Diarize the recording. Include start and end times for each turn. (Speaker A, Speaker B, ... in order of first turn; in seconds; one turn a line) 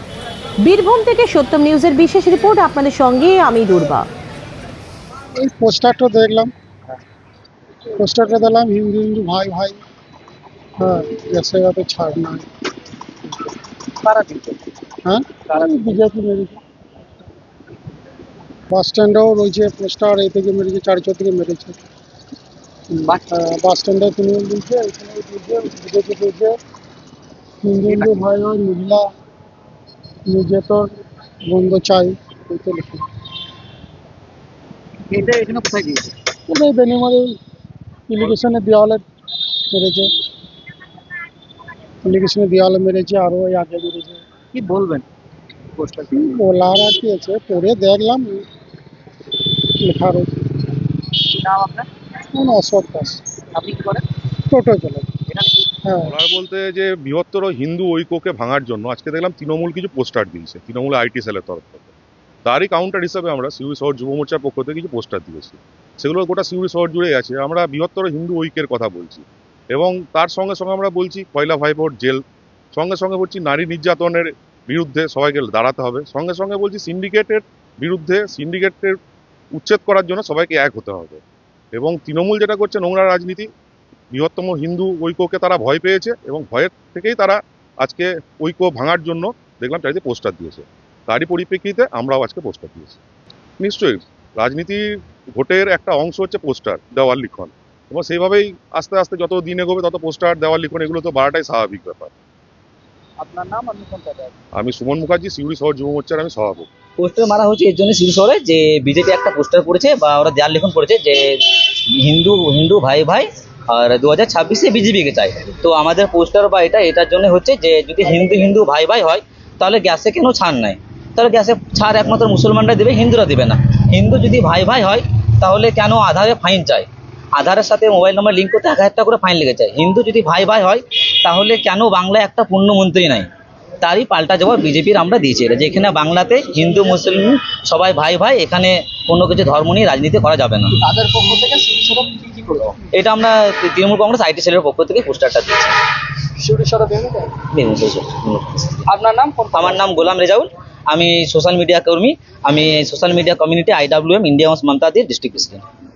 Speaker A: 0.6-4.1
Speaker B: 5.4-6.5
Speaker B: 8.0-9.8
Speaker B: 10.8-12.4
Speaker C: 14.0-14.7
Speaker B: 15.0-16.6
Speaker C: 15.5-15.9
Speaker B: 18.7-21.8
Speaker C: 22.9-23.2
Speaker B: 23.3-26.5
Speaker B: 27.6-29.1
Speaker C: 27.9-28.3
Speaker B: 30.3-30.9
Speaker B: 31.5-33.0
Speaker C: 35.1-36.1
Speaker B: 36.5-37.4
Speaker B: 38.1-39.0
Speaker B: 39.7-40.1
Speaker B: 42.0-44.2
Speaker C: 44.5-45.0
Speaker C: 45.8-46.4
Speaker B: 46.1-48.4
Speaker B: 49.8-50.3
Speaker C: 51.3-51.9
Speaker B: 52.3-53.2
Speaker C: 53.5-54.0
Speaker B: 54.5-55.1
Speaker C: 55.3-55.6
Speaker B: 55.8-56.1
Speaker D: 56.0-61.9
Speaker D: 62.4-72.2
Speaker D: 72.7-79.0
Speaker D: 79.5-81.2
Speaker D: 81.7-83.5
Speaker D: 84.1-93.0
Speaker D: 93.6-94.8
Speaker D: 95.3-102.1
Speaker C: 103.2-104.3
Speaker D: 104.5-106.7
Speaker E: 107.0-133.3
Speaker E: 133.8-140.8
Speaker C: 140.8-142.7
Speaker E: 142.9-145.8
Speaker C: 146.4-147.4
Speaker E: 147.5-148.8
Speaker C: 148.9-150.0
Speaker E: 149.5-155.6